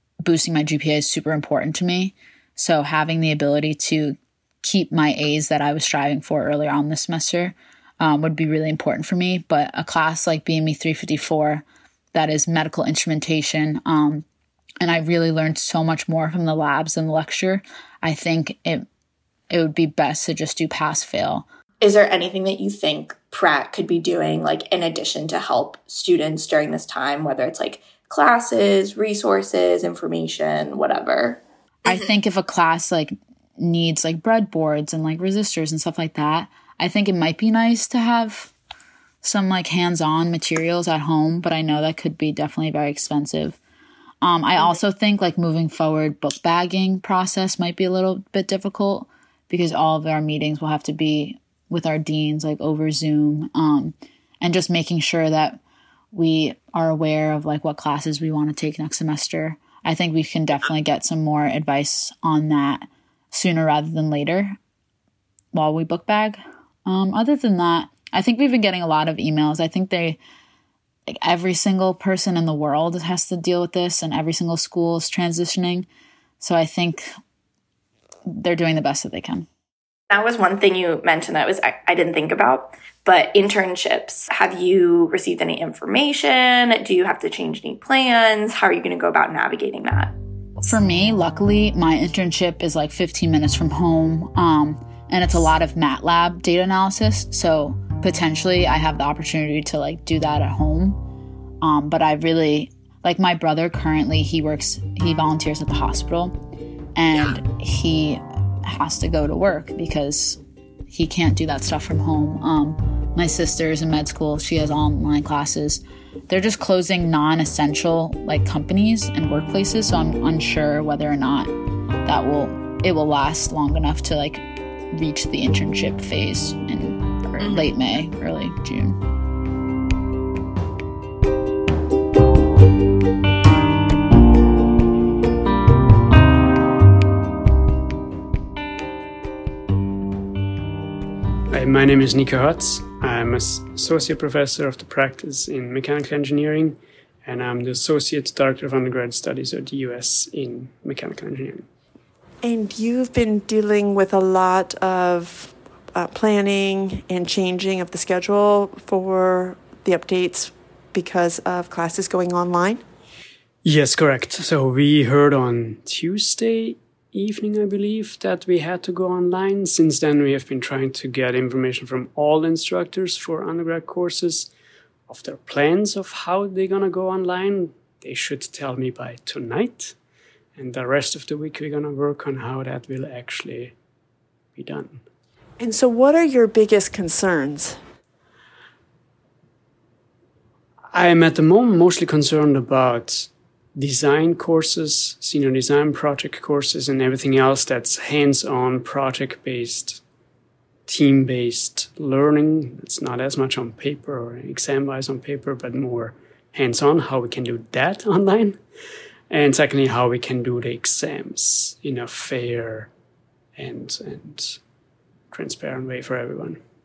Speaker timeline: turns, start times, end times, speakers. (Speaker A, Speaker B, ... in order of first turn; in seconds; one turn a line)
Speaker A: 0.2-14.2
Speaker A: 14.8-18.9
Speaker A: 19.5-21.4
Speaker B: 21.8-32.0
Speaker A: 31.9-38.5
Speaker A: 39.2-43.6
Speaker A: 44.2-55.6
Speaker A: 56.1-64.6
Speaker A: 65.5-70.2
Speaker A: 71.1-75.9
Speaker A: 76.4-77.1
Speaker A: 78.3-79.5
Speaker B: 80.1-90.1
Speaker A: 90.6-101.0
Speaker A: 101.6-106.3
Speaker A: 107.0-110.4
Speaker A: 110.9-121.5
Speaker A: 122.0-129.0
Speaker B: 127.4-127.7
Speaker C: 141.5-151.7
Speaker D: 152.4-162.8
Speaker C: 163.6-174.5
Speaker C: 175.1-179.9
Speaker C: 180.5-183.8
Speaker C: 184.5-185.0
Speaker D: 185.6-187.8
Speaker C: 190.9-200.0
Speaker C: 200.9-208.6
Speaker C: 209.3-212.9
Speaker C: 213.6-214.6
Speaker C: 215.3-216.6